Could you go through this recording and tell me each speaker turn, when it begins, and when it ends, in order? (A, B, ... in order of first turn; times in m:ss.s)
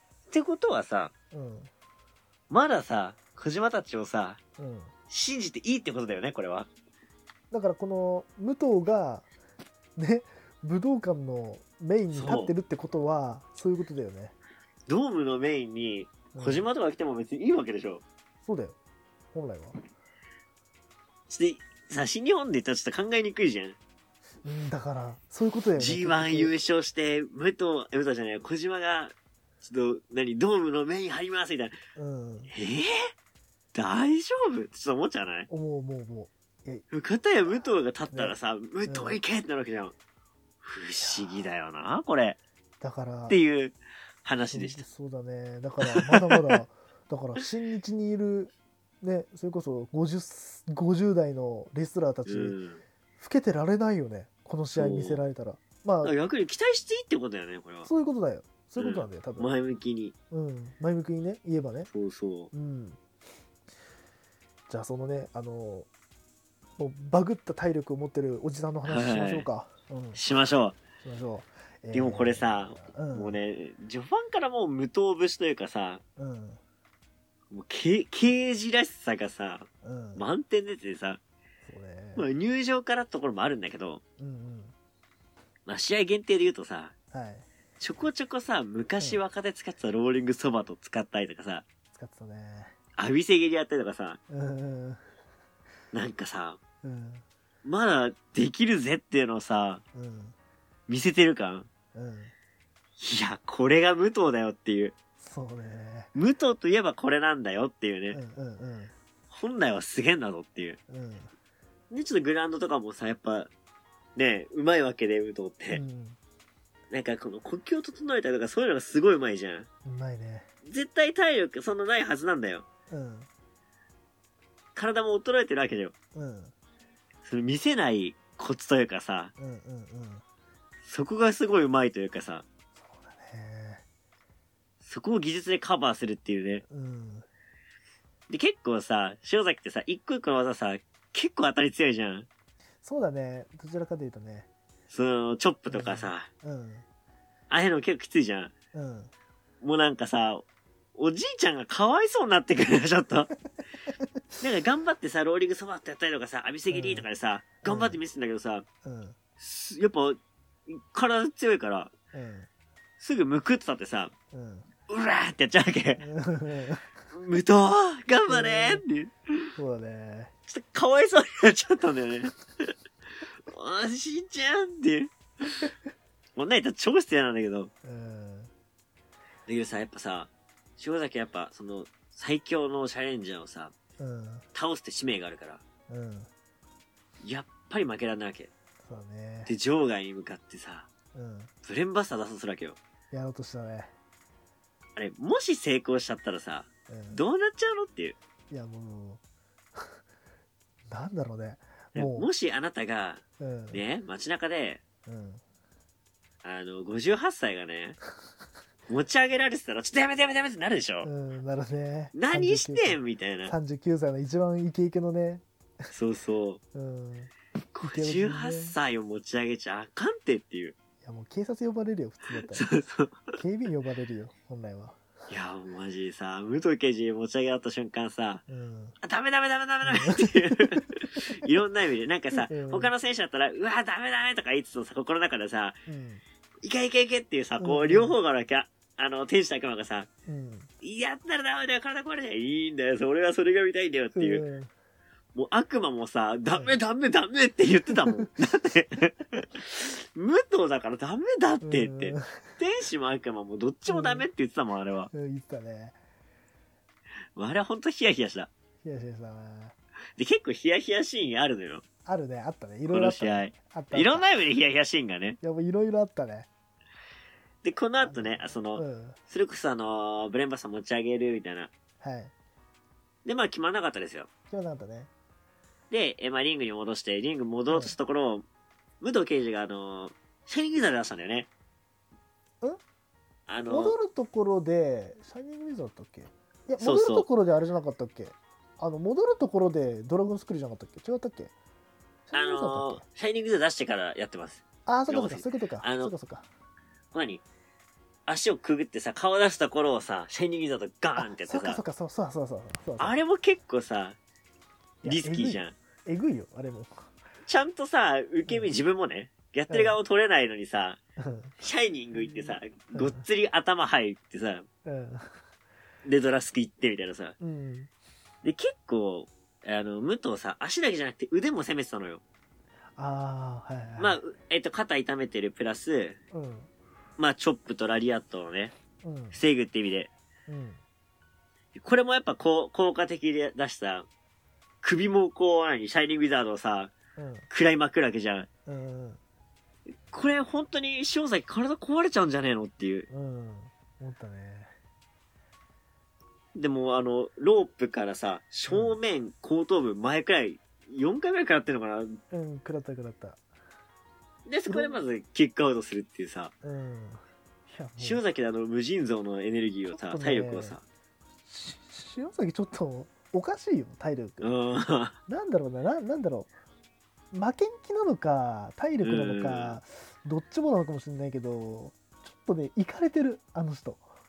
0:00.3-0:01.1 A
0:01.3-0:01.7 B
0:02.5-0:04.4 A
0:04.6-0:04.9 B
0:05.1-0:06.7 A
0:07.5-0:09.2 B
0:10.0-0:14.3 B
0:12.1-0:12.5 A
0:14.9-0:18.0 A
0:16.3-0:16.7 B
0:18.4-0:18.8 B
0:19.3-0:19.8 B
0:21.3-0:23.8 A
0:24.4-0:26.5 B
0:25.8-0:31.8 A
0:32.0-0:32.5 B
0:32.5-0:33.1 A
0:33.7-0:35.5 A
0:35.5-0:36.8 B
0:36.9-0:39.9 A
0:38.1-0:39.2 B
0:40.6-0:42.4 A
0:41.0-0:41.4 B
0:42.8-0:43.4 B
0:43.3-0:44.8 A
0:44.5-0:52.6 B
0:45.9-0:46.6 A
0:52.2-0:52.8 A
0:53.2-0:56.1 B
0:54.8-0:55.2 A
0:56.0-0:57.9 A
0:57.8-0:59.5 B
0:58.8-1:00.1 A
1:00.3-1:01.9 B
1:01.9-1:02.5 A
1:02.5-1:03.0 B
1:04.7-1:05.9 B
1:06.8-1:10.2 B
1:08.8-1:09.5 A
1:10.1-1:10.8 A
1:11.0-1:13.4 B
1:11.9-1:16.0 A
1:16.2-1:16.6 B
1:17.5-1:21.2 A
1:19.8-1:20.2 B
1:21.6-1:22.3 B
1:22.2-1:24.0 A
1:24.2-1:24.7 B
1:25.6-1:26.9 A
1:27.1-1:27.4 B
1:27.8-1:31.6 A
1:31.9-1:32.7 B
1:33.0-1:34.2 A
1:34.3-1:35.0 B
1:35.9-1:36.6 A
1:36.8-1:37.2 B
1:37.6-1:39.8 A
1:39.9-1:40.3 B
1:40.9-1:41.7 A
1:41.9-1:42.3 B
1:43.0-1:44.9 A
1:45.2-1:46.1 B
1:46.1-1:48.2 A
1:48.1-1:48.9 B
1:49.3-1:50.8 A
1:50.9-1:51.3 B
1:51.9-1:53.5 A
1:54.2-1:55.8 A
1:55.7-1:56.2 B
1:56.9-1:59.7 A
1:59.8-2:00.5 B
2:00.6-2:02.6 A
2:02.9-2:03.3 B
2:04.7-2:05.9 A
2:06.1-2:06.5 B
2:07.2-2:09.3 A
2:09.4-2:10.2 B
2:10.8-2:12.4 A
2:12.8-2:13.8 B
2:14.8-2:16.6 A
2:16.7-2:17.2 B
2:18.3-2:22.3 A
2:22.8-2:24.5 B
2:24.9-2:26.3 A
2:25.7-2:26.8 B
2:27.5-2:28.5 A
2:28.7-2:29.1 B
2:29.6-2:33.3 A
2:33.9-2:34.4 B
2:34.4-2:38.6 A
2:36.7-2:37.1 B
2:37.6-2:38.0 B
2:38.8-2:39.2 B
2:39.4-2:41.9 A
2:42.1-2:42.5 B
2:43.0-2:44.1 A
2:44.3-2:44.7 B
2:44.9-2:46.0 A
2:46.0-2:47.0 B
2:47.1-2:49.5 A
2:48.3-2:48.8 B
2:49.6-2:50.3 B
2:50.5-2:52.7 A
2:53.5-2:55.6 A
2:56.4-2:57.7 A
2:57.8-2:58.5 B
2:59.5-3:03.7 A
3:04.0-3:04.4 B
3:04.5-3:05.6 A
3:05.9-3:06.3 B
3:07.2-3:08.5 A
3:08.8-3:09.5 B
3:09.4-3:10.9 A
3:11.1-3:11.5 B
3:11.6-3:12.8 A
3:13.1-3:13.9 B
3:15.0-3:18.2 A
3:16.9-3:17.2 B
3:18.5-3:19.2 B
3:20.9-3:22.3 B
3:21.9-3:24.8 A
3:23.4-3:23.8 B
3:25.0-3:25.4 B
3:26.4-3:28.0 A
3:28.9-3:31.1 A
3:31.0-3:35.9 B
3:32.1-3:33.5 A
3:35.9-3:36.6 A
3:36.7-3:38.8 B
3:37.7-3:40.7 A
3:41.0-3:42.7 B
3:42.5-3:43.2 A
3:43.3-3:45.0 B
3:45.3-3:48.4 A
3:48.5-3:49.0 B
3:49.0-3:55.8 A
3:49.8-3:51.4 B
3:52.3-3:52.9 B
3:55.9-3:56.2 B
3:56.6-4:00.1 A
3:57.6-3:58.2 B
4:00.3-4:00.7 B
4:00.8-4:04.4 A
4:04.1-4:04.7 B
4:05.3-4:15.1 A
4:11.6-4:12.6 B
4:13.9-4:14.2 B
4:15.1-4:16.0 B
4:17.3-4:18.5 A
4:18.8-4:19.7 B
4:20.2-4:21.8 A
4:22.0-4:24.4 B
4:22.9-4:25.4 A
4:25.4-4:26.5 B
4:27.6-4:31.7 A
4:28.0-4:29.2 B
4:32.0-4:32.3 B
4:33.2-4:34.3 A
4:34.5-4:35.1 B
4:35.9-4:38.4 A
4:37.7-4:38.0 B
4:39.0-4:41.5 A
4:43.5-4:44.0 A
4:43.7-4:51.5 B
4:46.8-4:47.2 A
4:52.3-4:53.0 B
4:52.3-4:56.1 A
4:54.8-4:56.4 B
4:57.1-4:57.4 A
4:58.3-5:01.8 A
5:01.2-5:03.1 B
5:03.0-5:04.2 A
5:05.0-5:07.0 B
5:05.0-5:05.7 A
5:07.4-5:11.0 A
5:09.7-5:10.0 B
5:11.2-5:11.6 B
5:11.6-5:14.7 A
5:12.1-5:13.2 B
5:14.8-5:15.4 B
5:16.0-5:17.4 A
5:17.4-5:17.9 B
5:18.4-5:22.2 A
5:23.0-5:24.2 B
5:24.0-5:26.2 A
5:26.3-5:26.7 B
5:27.2-5:28.7 A
5:29.0-5:29.4 B
5:29.3-5:30.1 A
5:30.5-5:30.8 B
5:31.7-5:34.1 A
5:34.8-5:36.9 A
5:37.2-5:37.5 B
5:37.5-5:38.5 A
5:38.7-5:39.2 B
5:40.1-5:43.1 A
5:43.1-5:44.7 B
5:46.5-5:52.2 A
5:48.7-5:49.0 B
5:52.3-5:53.4 B
5:54.5-5:56.5 A
5:54.7-5:55.0 B
5:56.6-5:58.2 B
5:58.0-6:00.8 A
5:59.9-6:00.8 B
6:01.5-6:04.5 B
6:04.4-6:05.2 A
6:05.3-6:06.5 B
6:07.3-6:14.0 B
6:09.0-6:09.8 A